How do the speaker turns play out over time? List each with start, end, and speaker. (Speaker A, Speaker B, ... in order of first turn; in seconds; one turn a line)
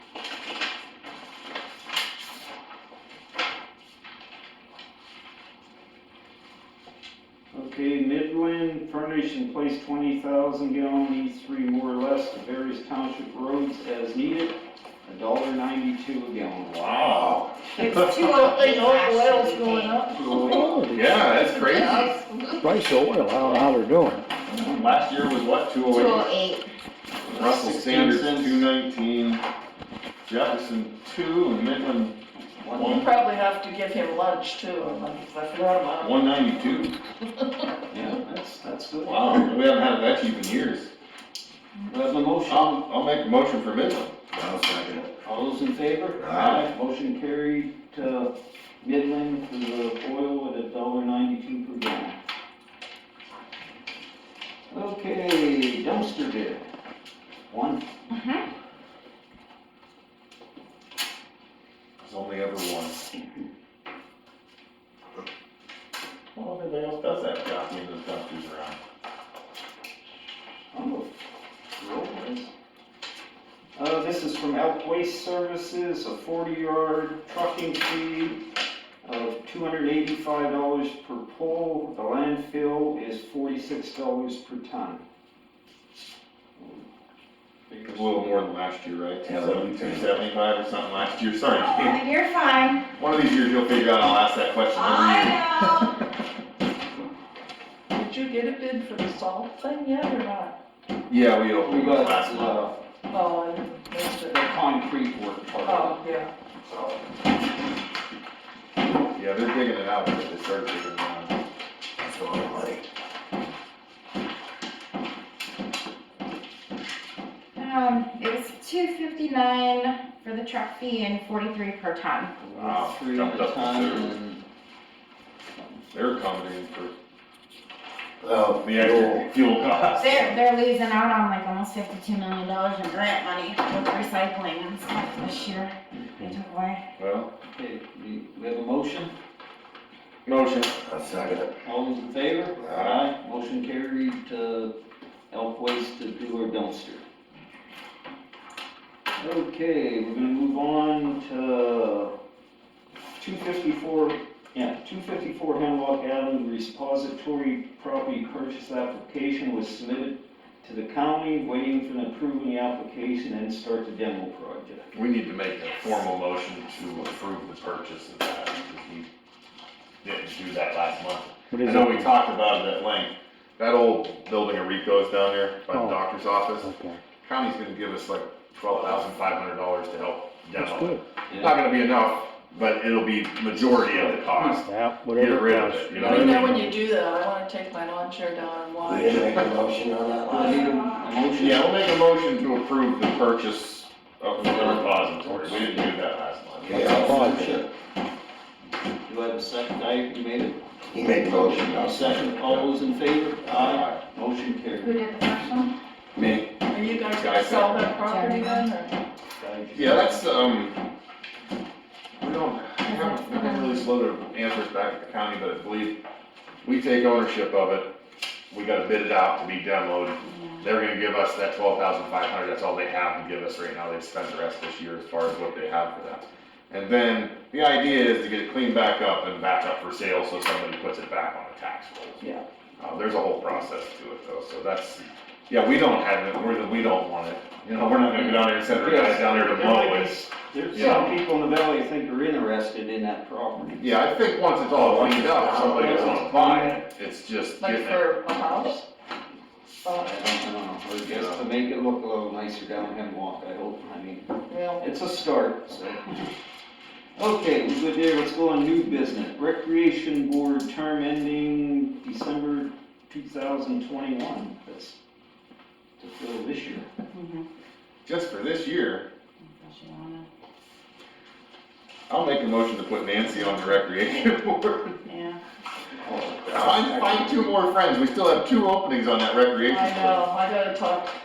Speaker A: 7.5-17.1
Speaker B: 16.8-17.4
Speaker C: 17.8-20.8
Speaker D: 17.8-20.6
Speaker A: 20.1-21.2
Speaker E: 20.8-21.3
Speaker B: 20.9-22.1
Speaker D: 21.3-22.8
Speaker E: 22.6-24.2
Speaker A: 23.1-24.0
Speaker B: 24.5-26.3
Speaker C: 25.9-26.7
Speaker A: 27.2-28.7
Speaker B: 27.3-29.4
Speaker B: 30.2-32.2
Speaker A: 32.6-33.0
Speaker B: 32.7-33.1
Speaker D: 32.8-36.2
Speaker B: 36.0-36.9
Speaker A: 37.9-39.5
Speaker B: 39.0-40.9
Speaker A: 41.9-42.8
Speaker B: 42.5-44.1
Speaker F: 44.3-45.1
Speaker A: 45.2-52.2
Speaker F: 46.2-46.6
Speaker B: 46.3-46.7
Speaker A: 54.7-56.6
Speaker A: 57.5-57.9
Speaker C: 58.1-58.4
Speaker B: 62.0-63.0
Speaker B: 66.3-68.8
Speaker A: 70.7-72.5
Speaker A: 73.8-78.4
Speaker A: 79.0-85.0
Speaker A: 86.6-86.8
Speaker A: 87.7-88.4
Speaker B: 87.8-92.0
Speaker F: 89.2-90.2
Speaker C: 91.5-92.9
Speaker B: 93.0-95.8
Speaker C: 94.8-95.9
Speaker D: 97.9-100.5
Speaker B: 101.1-102.7
Speaker A: 101.6-102.7
Speaker D: 103.1-104.4
Speaker A: 104.3-106.0
Speaker D: 105.6-106.3
Speaker F: 106.6-107.0
Speaker B: 109.1-111.4
Speaker F: 112.0-112.8
Speaker C: 117.5-122.3
Speaker A: 122.4-124.4
Speaker B: 122.5-124.1
Speaker A: 125.5-125.8
Speaker B: 125.9-126.9
Speaker F: 128.2-129.2
Speaker B: 128.6-130.4
Speaker C: 130.0-136.8
Speaker B: 137.0-137.3
Speaker A: 137.4-139.1
Speaker B: 140.2-140.8
Speaker F: 140.8-141.5
Speaker A: 141.6-144.7
Speaker F: 142.6-142.9
Speaker A: 145.3-147.0
Speaker A: 149.2-152.1
Speaker A: 153.2-164.9
Speaker B: 164.9-169.1
Speaker B: 170.0-176.7
Speaker A: 171.5-172.1
Speaker E: 175.7-176.0
Speaker A: 176.6-176.9
Speaker B: 177.2-186.6
Speaker E: 180.6-181.0
Speaker A: 181.3-181.6
Speaker A: 183.5-186.3
Speaker E: 184.6-186.7
Speaker D: 186.0-189.4
Speaker F: 188.8-190.6
Speaker A: 190.3-191.8
Speaker C: 190.5-190.9
Speaker B: 191.4-197.1
Speaker E: 195.2-195.6
Speaker F: 196.6-197.7
Speaker A: 196.6-197.5
Speaker E: 196.7-197.6
Speaker A: 199.1-200.6
Speaker F: 200.9-202.4
Speaker A: 201.4-204.9
Speaker F: 203.4-203.8
Speaker B: 203.4-204.0
Speaker C: 204.8-205.7
Speaker B: 206.1-206.5
Speaker D: 206.7-208.9
Speaker B: 207.1-207.8
Speaker C: 208.0-208.7
Speaker A: 209.4-210.6
Speaker B: 209.7-210.8
Speaker B: 212.2-216.0
Speaker C: 212.8-213.9
Speaker B: 216.6-217.9
Speaker B: 218.5-232.2
Speaker C: 220.2-220.7
Speaker A: 232.2-232.4
Speaker B: 232.8-241.1
Speaker A: 238.1-243.9
Speaker D: 240.8-241.1
Speaker B: 243.8-248.1
Speaker F: 244.7-246.2
Speaker A: 245.5-246.8
Speaker D: 247.6-248.8
Speaker D: 249.8-250.1
Speaker A: 250.0-254.3
Speaker B: 251.0-251.4
Speaker D: 254.5-254.8
Speaker A: 254.8-256.2
Speaker A: 257.1-265.0
Speaker A: 266.0-266.9
Speaker C: 267.1-267.4
Speaker B: 268.0-269.1
Speaker C: 269.5-270.3
Speaker B: 272.1-275.0
Speaker C: 275.1-275.4
Speaker A: 276.0-277.5
Speaker B: 276.5-280.2
Speaker D: 279.6-281.1